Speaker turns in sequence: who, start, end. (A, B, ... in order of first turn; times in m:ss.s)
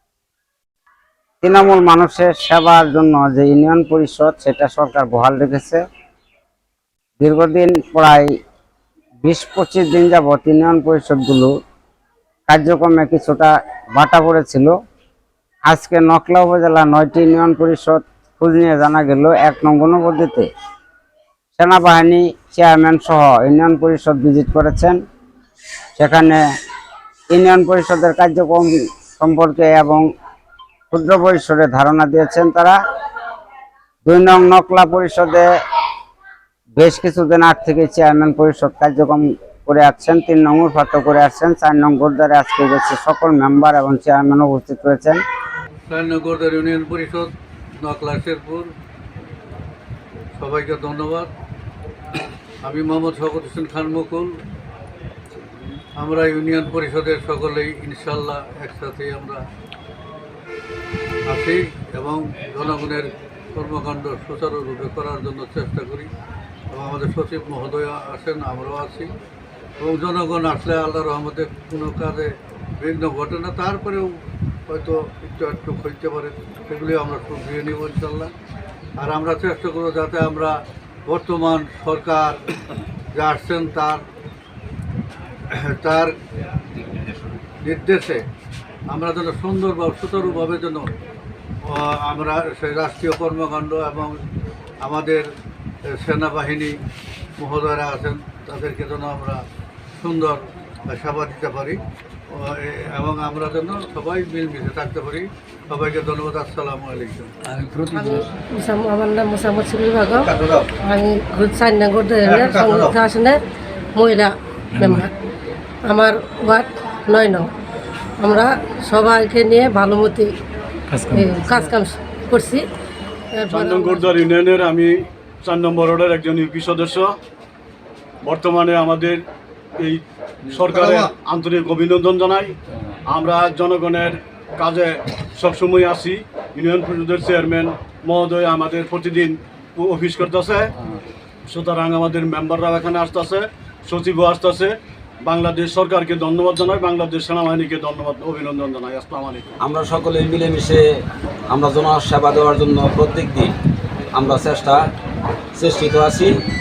0:01.4-0:05.8 A
0:07.2-0:08.3 A
0:09.2-0:11.5 A
0:12.5-0:14.7 A
0:15.7-0:20.5 A
0:21.6-0:25.0 A
0:26.0-0:26.4 A
0:27.3-0:30.1 A
0:30.9-0:32.8 A
0:34.1-0:35.5 A
0:36.8-0:45.2 A
0:45.9-0:48.7 B
0:50.4-0:51.3 B
0:52.6-0:54.4 B
0:56.0-0:59.4 B
1:01.3-1:06.1 B
1:06.7-1:09.1 B
1:09.8-1:18.3 B
1:19.0-1:22.4 B
1:23.1-1:24.0 B
1:25.5-1:26.2 B
1:27.6-1:28.3 B
1:28.9-1:30.9 B
1:31.6-1:34.2 B
1:34.8-1:35.3 B
1:35.8-1:36.8 B
1:37.4-1:39.4 B
1:40.0-1:48.3 B
1:47.9-1:53.4 C
1:50.2-1:50.7 B
1:52.2-1:53.0 B
1:54.0-1:55.1 C
1:55.9-1:57.5 C
1:58.2-2:00.3 C
2:01.0-2:02.6 C
2:03.3-2:04.1 C
2:03.5-2:07.2 D
2:08.2-2:09.2 D
2:09.8-2:12.6 D
2:10.7-2:11.1 B
2:13.1-2:20.7 D
2:21.5-2:29.5 D
2:29.6-2:30.8 E
2:31.5-2:33.5 E
2:34.1-2:34.9 E
2:35.6-2:36.3 E